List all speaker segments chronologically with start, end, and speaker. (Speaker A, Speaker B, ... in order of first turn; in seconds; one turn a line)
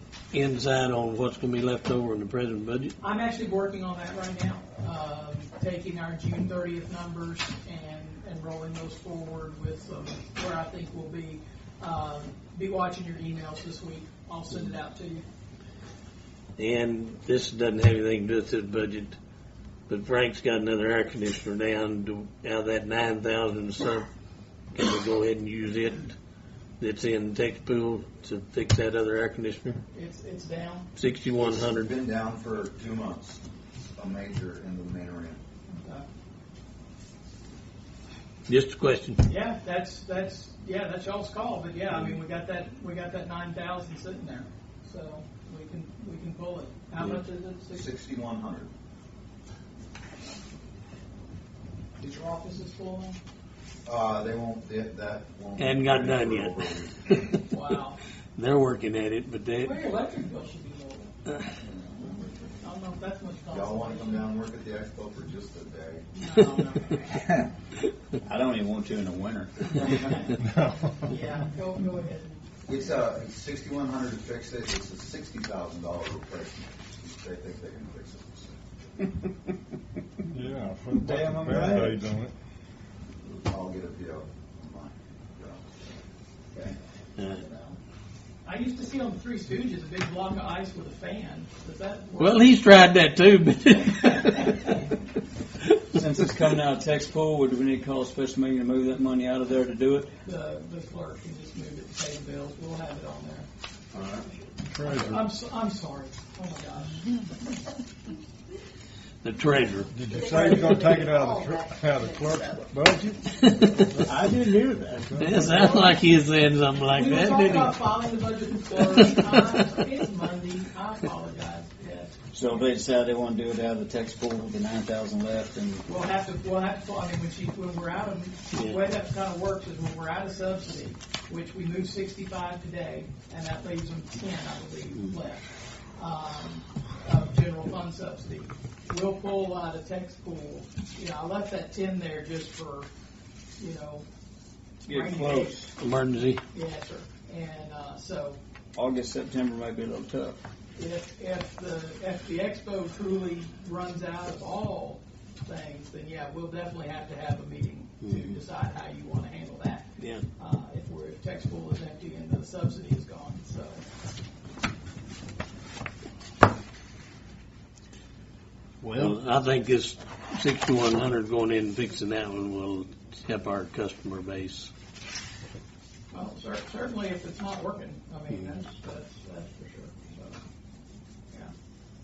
Speaker A: 0.3-3.0
Speaker B: 3.0-15.2
Speaker A: 16.6-19.1
Speaker A: 19.9-24.1
Speaker A: 24.7-26.1
Speaker A: 26.8-29.8
Speaker B: 29.9-30.9
Speaker A: 30.9-31.9
Speaker C: 31.3-33.4
Speaker C: 33.9-35.4
Speaker B: 35.7-36.0
Speaker A: 38.5-39.2
Speaker B: 39.2-47.9
Speaker C: 47.7-48.7
Speaker B: 52.0-53.2
Speaker C: 53.9-57.3
Speaker A: 55.6-57.4
Speaker B: 57.5-58.0
Speaker A: 58.4-59.8
Speaker B: 59.6-61.1
Speaker B: 62.1-64.3
Speaker C: 63.5-66.0
Speaker B: 66.2-67.2
Speaker C: 67.1-67.5
Speaker D: 68.2-70.1
Speaker E: 70.4-71.1
Speaker B: 70.9-72.4
Speaker C: 72.7-78.6
Speaker E: 80.3-82.3
Speaker D: 80.9-82.1
Speaker C: 83.4-86.0
Speaker A: 87.2-87.4
Speaker B: 87.4-87.7
Speaker B: 88.4-92.6
Speaker A: 92.2-94.8
Speaker D: 95.9-100.1
Speaker B: 100.2-103.5
Speaker C: 103.9-104.3
Speaker E: 104.6-105.3
Speaker B: 104.8-107.2
Speaker A: 109.2-109.9
Speaker E: 109.9-114.3
Speaker B: 110.2-111.2
Speaker A: 113.4-113.8
Speaker D: 114.0-115.4
Speaker E: 114.9-115.8
Speaker A: 115.2-117.8
Speaker B: 115.5-116.0
Speaker B: 116.9-122.7
Speaker A: 118.9-119.6
Speaker D: 122.3-125.8
Speaker B: 125.8-142.9
Speaker A: 128.5-128.8
Speaker B: 143.6-144.1
Speaker B: 144.8-145.6
Speaker D: 144.8-145.7
Speaker A: 145.8-146.4
Speaker B: 146.5-148.4
Speaker D: 148.7-150.4
Speaker B: 150.8-163.8
Speaker A: 158.0-158.3
Speaker A: 160.0-160.2
Speaker D: 168.8-169.2
Speaker A: 168.9-174.7
Speaker B: 176.1-180.4